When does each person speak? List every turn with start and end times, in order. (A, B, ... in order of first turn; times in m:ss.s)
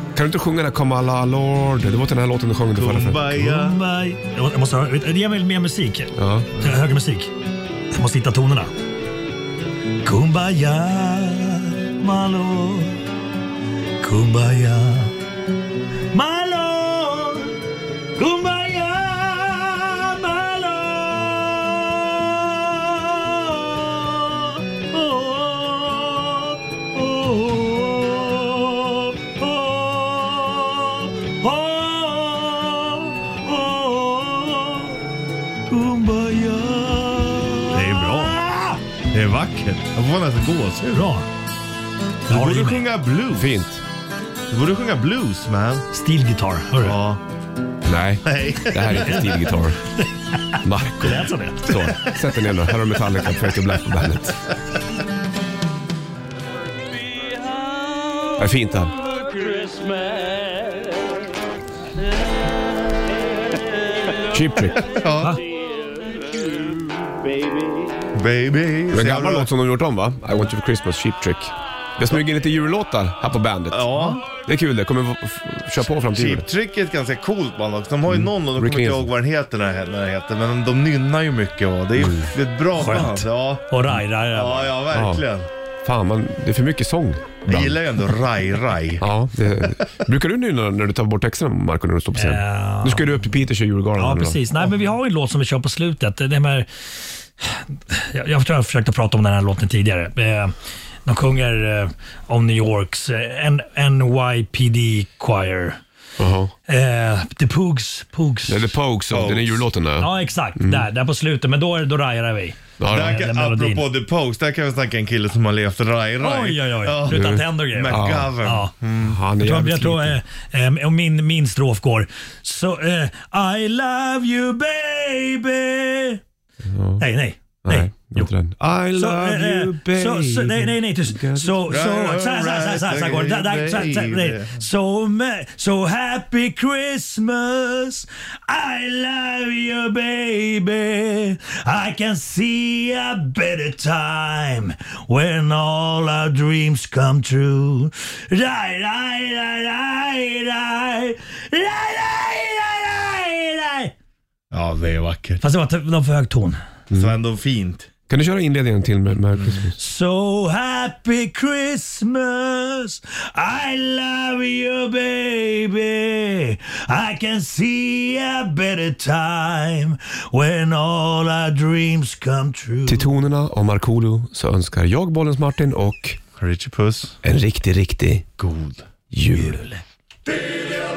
0:00.1-0:03.6 A
0:02.7-0:03.8 B
0:03.4-0:07.3 C
0:06.2-0:06.5 A
0:07.9-0:08.7 C
0:10.0-0:13.0 C
0:14.0-0:15.1 C
0:16.1-0:17.6 C
0:18.1-0:35.0 C
0:35.7-0:38.8 C
0:37.7-0:38.4 B
0:39.1-0:41.1 B
0:40.9-0:41.2 C
0:42.3-0:42.8 C
0:42.3-0:43.5 B
0:43.4-0:43.8 A
0:44.5-0:45.9 B
0:45.9-0:47.0 C
0:46.8-0:47.2 B
0:47.8-0:49.8 A
0:48.2-0:49.3 B
0:49.0-0:51.9 C
0:50.6-0:54.4 A
0:58.4-0:58.9 A
0:59.1-1:00.4 C
1:04.3-1:04.8 A
1:04.8-1:05.4 B
1:08.1-1:09.5 B
1:08.9-1:16.4 A
1:13.7-1:14.2 B
1:13.9-1:14.2 C
1:16.1-1:23.7 B
1:18.1-1:19.1 A
1:22.0-1:22.3 A
1:22.8-1:24.8 C
1:24.3-1:25.5 B
1:24.9-1:25.2 A
1:25.8-1:27.9 A
1:27.4-1:29.0 B
1:29.0-1:34.4 A
1:32.1-1:33.0 C
1:34.0-1:36.7 C
1:37.4-1:40.5 C
1:41.0-1:45.8 C
1:46.2-1:46.5 A
1:46.7-1:48.7 C
1:48.5-1:50.9 A
1:49.1-1:49.6 B
1:50.0-1:53.9 C
1:52.8-1:53.2 A
1:52.9-1:59.2 B
1:56.2-1:58.7 C
1:57.1-1:58.4 A
1:59.0-2:00.2 A
1:59.4-2:06.2 C
2:06.6-2:07.0 A
2:07.0-2:07.9 C
2:07.6-2:11.8 A
2:08.9-2:33.9 C
2:11.7-2:14.6 B
2:34.5-2:35.4 B
2:35.4-2:36.6 C
2:36.9-2:37.2 A
2:36.9-2:37.9 B
2:38.1-2:39.7 A
2:39.7-2:53.1 C
2:52.8-2:56.2 A
2:56.4-2:57.2 B
2:57.2-2:58.2 A
2:58.4-2:58.8 B
2:59.1-2:59.6 A
2:59.3-2:59.8 C